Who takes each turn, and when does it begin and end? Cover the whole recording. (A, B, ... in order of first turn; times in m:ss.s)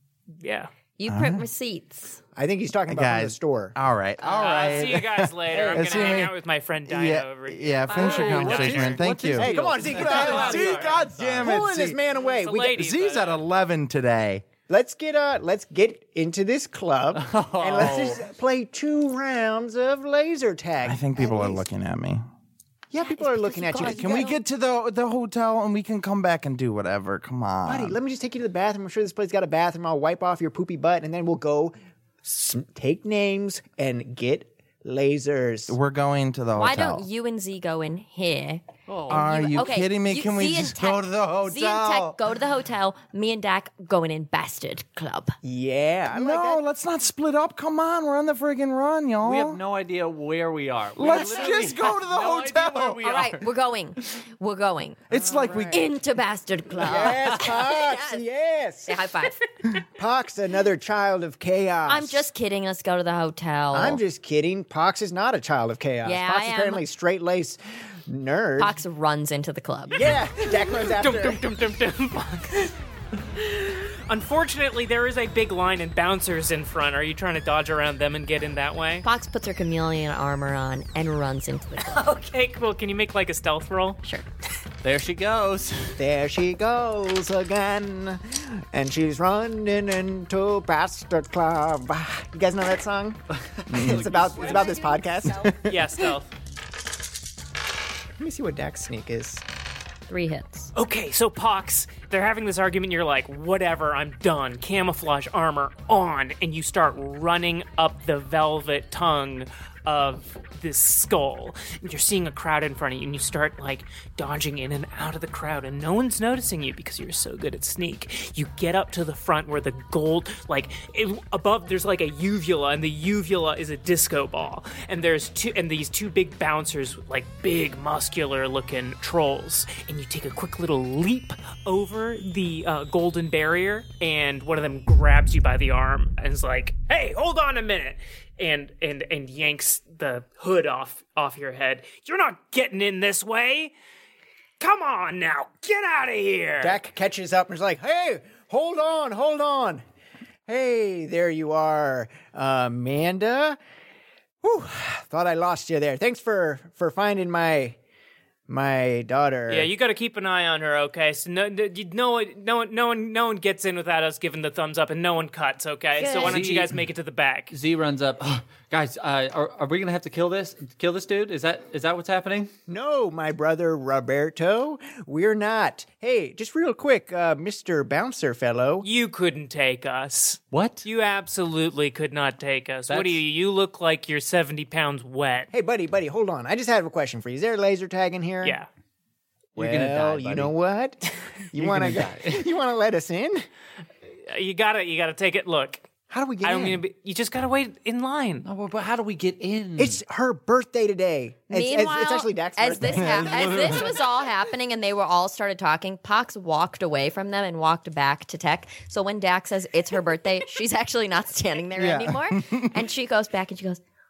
0:00.4-0:00.7 A
0:01.0-0:02.2 B
0:01.1-0:01.4 C
0:02.4-0:03.8 D
0:02.9-0:06.3 C
0:04.2-0:09.0 A
0:05.5-0:06.2 D
0:06.8-0:12.0 C
0:07.9-0:08.5 B
0:07.9-0:11.5 E
0:09.3-0:12.8 D
0:10.0-0:11.1 A
0:12.2-0:13.4 A
0:12.7-0:14.4 C
0:14.7-0:21.6 D
0:17.1-0:18.2 E
0:20.8-0:22.2 C
0:22.9-0:24.3 D
0:23.0-0:24.4 B
0:23.8-0:28.0 C
0:27.6-0:35.8 D
0:35.7-0:37.1 C
0:36.5-0:45.4 B
0:38.9-0:39.6 E
0:39.1-0:42.2 C
0:45.4-0:46.6 D
0:46.1-0:49.6 C
0:49.2-0:53.3 E
0:50.9-0:53.4 C
0:51.2-0:51.5 B
0:53.0-0:58.2 B
0:55.1-0:55.9 C
0:56.8-0:59.0 D
0:58.9-0:59.4 B
1:00.0-1:02.2 D
1:01.9-1:04.0 B
1:03.7-1:08.8 D
1:06.0-1:06.8 B
1:08.6-1:10.1 B
1:09.9-1:11.4 D
1:10.6-1:12.7 A
1:13.3-1:19.0 A
1:19.0-1:22.0 B
1:21.8-1:24.0 A
1:24.8-1:26.0 E
1:26.0-1:33.2 D
1:33.6-1:34.5 E
1:33.7-1:34.1 C
1:33.7-1:35.8 D
1:34.0-1:35.6 B
1:35.6-1:36.3 A
1:38.2-1:39.4 D
1:40.1-1:40.7 B
1:40.7-2:23.7 A
2:24.6-2:26.8 A
2:26.6-2:29.8 D
2:30.5-2:33.6 D
2:34.4-2:37.8 D
2:38.5-2:39.7 D
2:39.5-2:47.5 A
2:46.0-2:46.4 B
2:46.2-2:46.8 E
2:47.5-2:52.5 E
2:52.7-2:58.9 D
2:58.8-3:05.5 A
3:00.5-3:00.9 E
3:02.9-3:03.2 E
3:05.5-3:08.6 D
3:08.4-3:08.7 A
3:09.6-3:10.5 E
3:09.6-3:13.4 D
3:11.5-3:12.5 E
3:14.3-3:15.9 A
3:16.1-3:16.8 D
3:16.4-3:18.4 A
3:18.4-3:20.0 E
3:19.8-3:23.9 D
3:21.5-3:33.8 B
3:22.9-3:23.9 C
3:31.7-3:32.8 C